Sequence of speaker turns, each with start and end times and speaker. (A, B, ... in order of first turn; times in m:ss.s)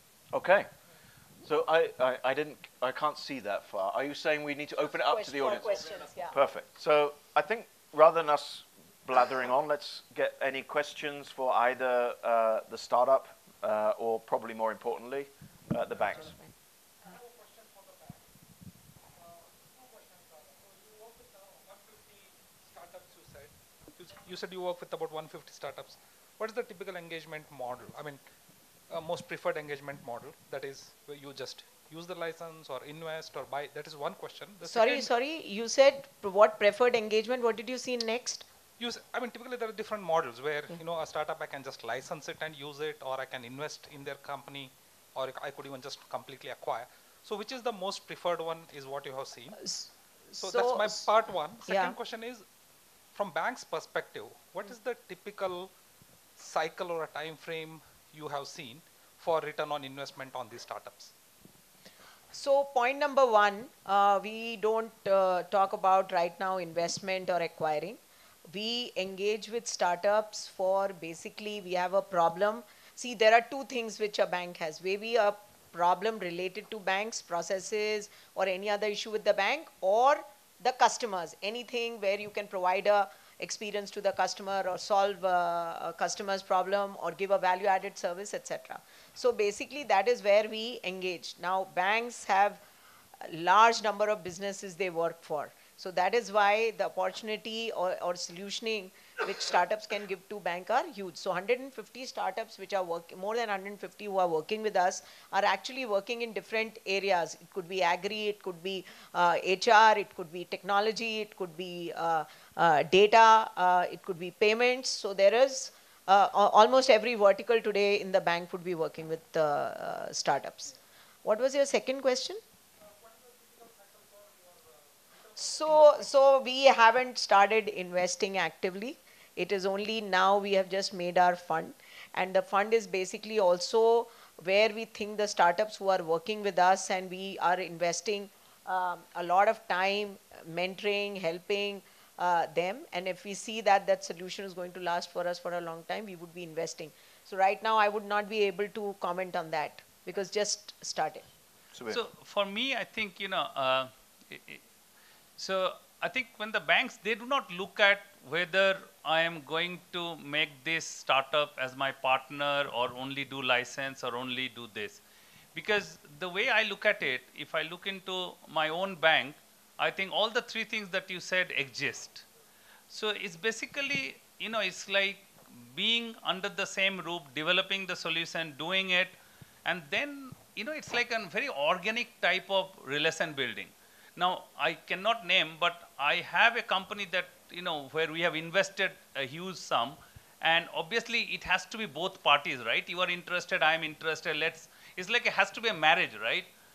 0:00.3-0:00.7 A
0:01.4-0:16.4 A
0:05.0-0:06.4 B
0:17.0-0:18.2 C
0:19.2-0:28.2 C
0:28.9-0:35.1 C
0:34.6-0:38.5 B
0:38.8-0:49.6 C
0:49.6-0:51.1 B
0:50.4-0:52.4 C
0:51.6-0:52.0 B
0:53.1-0:55.7 C
0:56.4-1:01.1 C
1:02.3-1:08.0 B
1:08.5-1:32.6 B
1:33.2-2:02.4 B
2:03.0-2:06.0 C
2:05.4-2:31.2 B
2:31.7-2:32.0 A
2:31.9-2:34.6 D
2:35.4-2:45.0 D
2:45.6-2:52.3 D
2:52.9-3:16.5 D